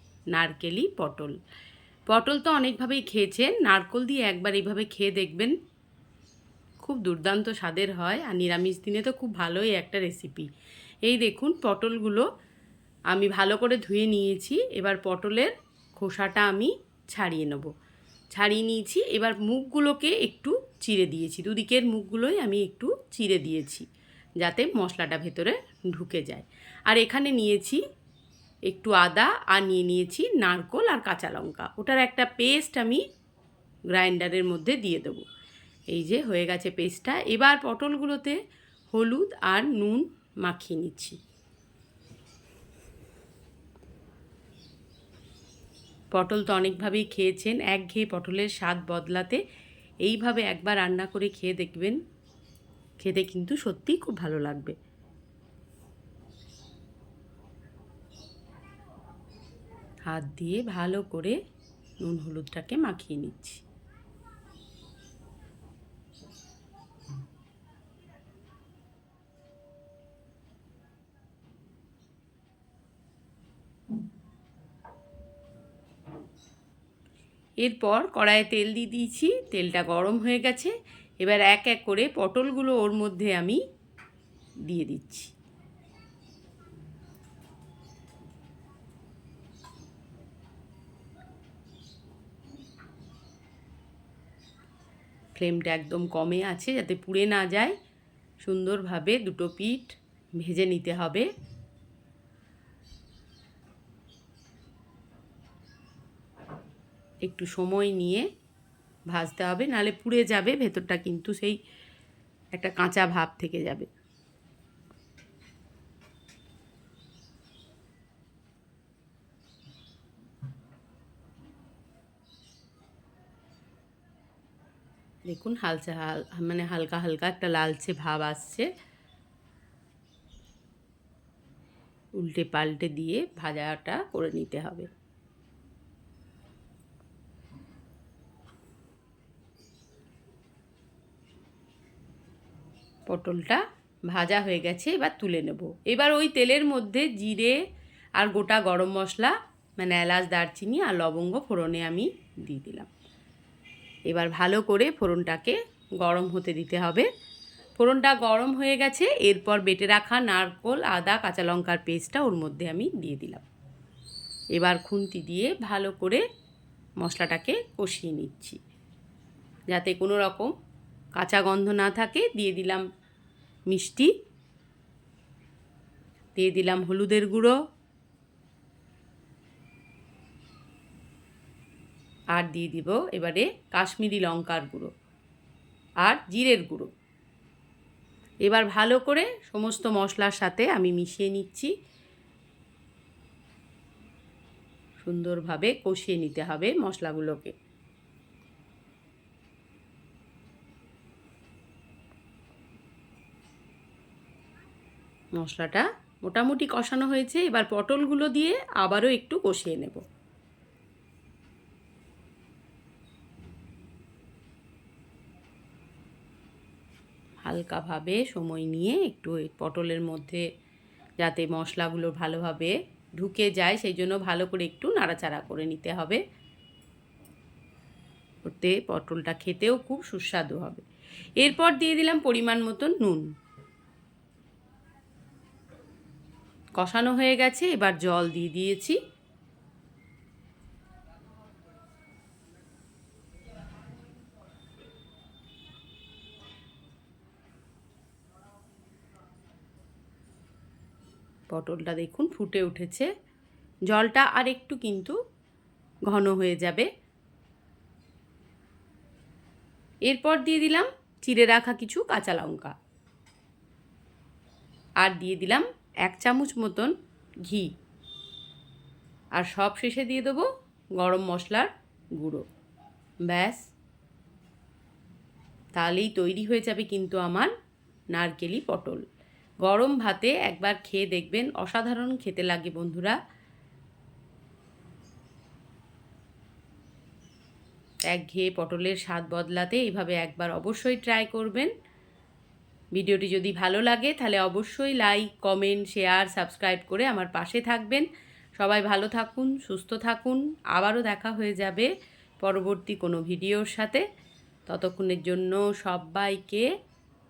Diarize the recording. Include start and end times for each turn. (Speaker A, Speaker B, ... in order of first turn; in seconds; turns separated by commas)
Speaker A: 0.3-1.4, Speaker A: 2.1-5.5, Speaker A: 6.8-10.5, Speaker A: 11.0-12.3, Speaker A: 13.1-17.7, Speaker A: 18.3-23.9, Speaker A: 24.4-27.8, Speaker A: 28.7-33.0, Speaker A: 33.9-35.2, Speaker A: 35.9-38.4, Speaker A: 38.9-41.2, Speaker A: 46.1-49.4, Speaker A: 50.0-52.0, Speaker A: 53.0-54.8, Speaker A: 60.1-61.4, Speaker A: 62.0-63.6, Speaker A: 77.6-83.6, Speaker A: 84.7-85.3, Speaker A: 95.3-97.8, Speaker A: 98.4-101.3, Speaker A: 107.2-108.3, Speaker A: 109.1-111.6, Speaker A: 112.5-113.9, Speaker A: 125.3-128.7, Speaker A: 132.2-134.9, Speaker A: 143.1-147.6, Speaker A: 148.2-152.9, Speaker A: 154.1-157.1, Speaker A: 157.8-163.4, Speaker A: 164.6-166.2, Speaker A: 167.0-168.6, Speaker A: 169.7-170.5, Speaker A: 171.2-172.8, Speaker A: 173.7-174.1, Speaker A: 176.3-177.6, Speaker A: 182.3-184.9, Speaker A: 186.0-186.9, Speaker A: 188.5-191.7, Speaker A: 195.0-197.5, Speaker A: 205.4-210.0, Speaker A: 217.4-220.4, Speaker A: 221.2-226.2, Speaker A: 228.4-230.8, Speaker A: 231.4-233.2, Speaker A: 236.8-239.0, Speaker A: 251.5-253.1, Speaker A: 253.9-255.2, Speaker A: 256.1-256.9, Speaker A: 260.1-262.7, Speaker A: 265.0-266.9, Speaker A: 267.4-267.7, Speaker A: 269.4-270.5, Speaker A: 271.0-272.4, Speaker A: 273.3-273.6, Speaker A: 275.8-277.5, Speaker A: 278.1-279.1, Speaker A: 279.6-283.2, Speaker A: 288.1-291.7, Speaker A: 292.9-298.1, Speaker A: 298.6-301.9, Speaker A: 302.4-304.0, Speaker A: 304.7-306.7